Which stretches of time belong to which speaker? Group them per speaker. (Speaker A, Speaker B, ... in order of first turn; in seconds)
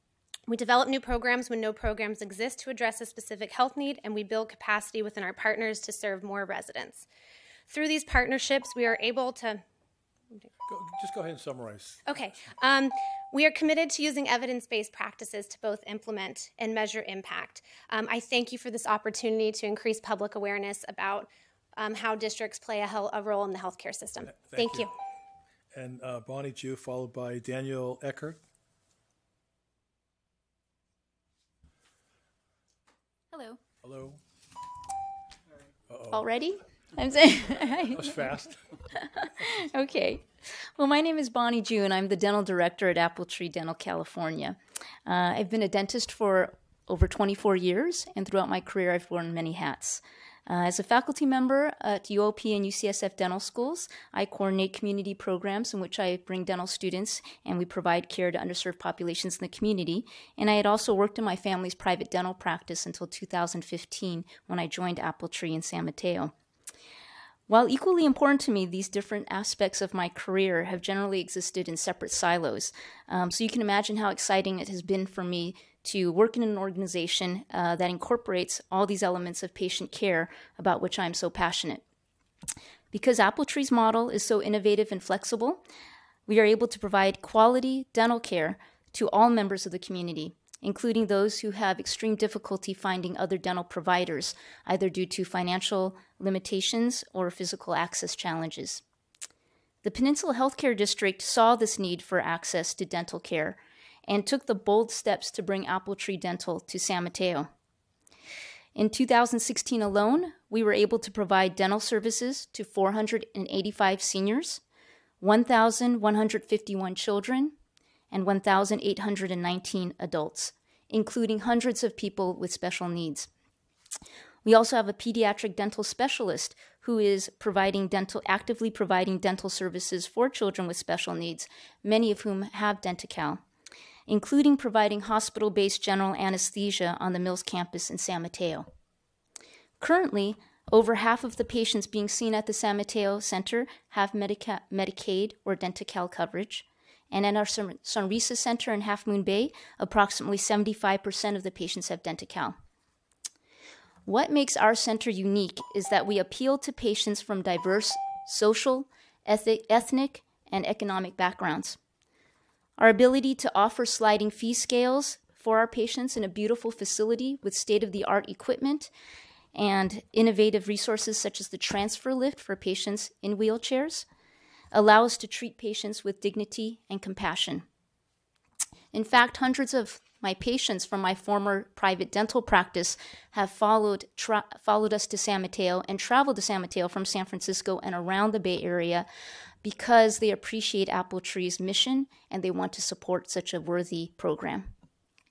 Speaker A: 0.5-7.1, 7.7-9.6, 12.1-24.9
Speaker B: 10.7-12.1, 24.3-24.9, 25.7-28.4, 33.8-34.2, 35.9-36.3, 37.9-38.8
Speaker C: 33.3-33.6, 36.1-38.4, 38.9-66.3, 67.5-81.8, 82.9-85.6, 86.3-98.8, 99.8-107.5, 108.7-114.6, 115.2-117.5, 118.1-123.3, 124.4-133.4, 134.1-138.7, 139.8-152.6, 154.1-161.8, 162.8-168.9, 169.5-174.0, 174.7-177.6, 178.9-189.1, 189.6-194.7